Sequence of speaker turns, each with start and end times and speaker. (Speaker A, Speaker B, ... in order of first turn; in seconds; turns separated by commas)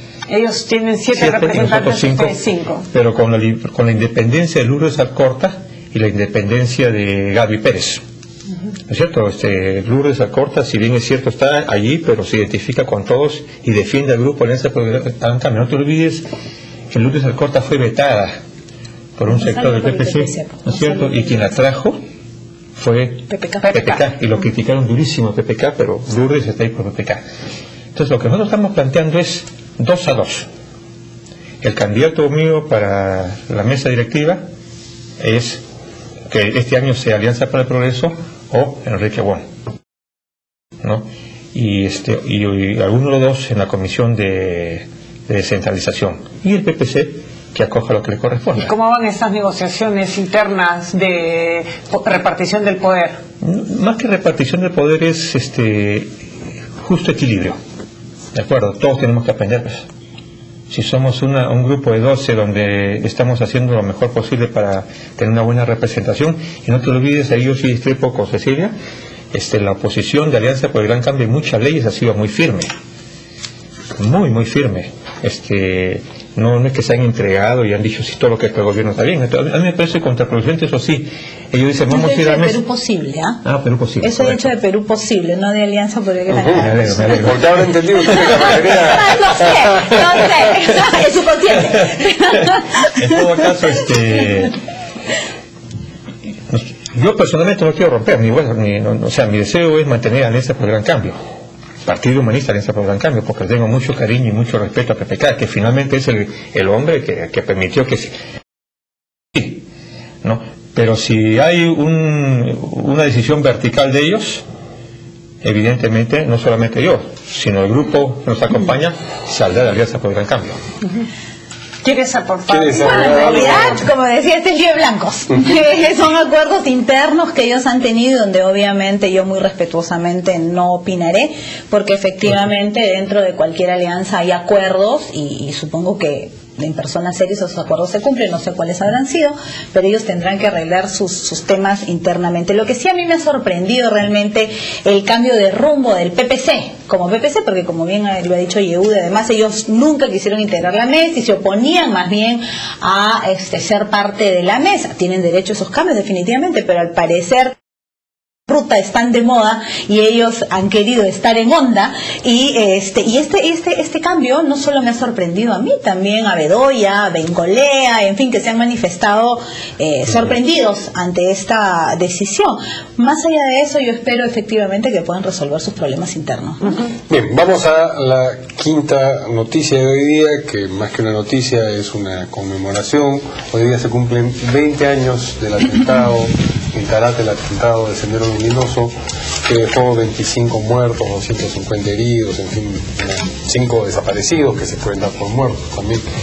Speaker A: 0.3-2.9, Speaker B: 1.1-2.4, Speaker B: 2.9-8.0, Speaker B: 8.9-16.2, Speaker B: 16.9-18.4, Speaker B: 19.2-22.0, Speaker C: 19.3-21.5, Speaker B: 22.8-27.2, Speaker C: 23.3-23.6, Speaker A: 23.6-24.0, Speaker B: 27.9-30.5, Speaker B: 31.6-34.4, Speaker B: 35.2-35.6, Speaker B: 36.3-39.4, Speaker B: 40.8-48.7, Speaker A: 48.6-53.2, Speaker B: 53.4-56.1, Speaker B: 56.8-57.6, Speaker B: 58.3-59.8, Speaker B: 60.7-68.7, Speaker B: 69.3-72.7, Speaker B: 74.0-82.6, Speaker C: 81.9-83.4, Speaker B: 83.4-84.5, Speaker C: 84.0-87.4, Speaker D: 86.3-90.2, Speaker B: 86.5-87.6, Speaker C: 88.0-93.1, Speaker B: 93.0-94.6, Speaker B: 96.5-101.2, Speaker B: 101.8-108.1, Speaker B: 109.3-109.7, Speaker B: 110.2-114.4, Speaker B: 115.4-120.6, Speaker A: 121.8-123.6, Speaker D: 122.5-123.8, Speaker C: 122.8-157.6, Speaker C: 158.5-176.8, Speaker D: 177.1-188.9, Speaker D: 189.5-196.0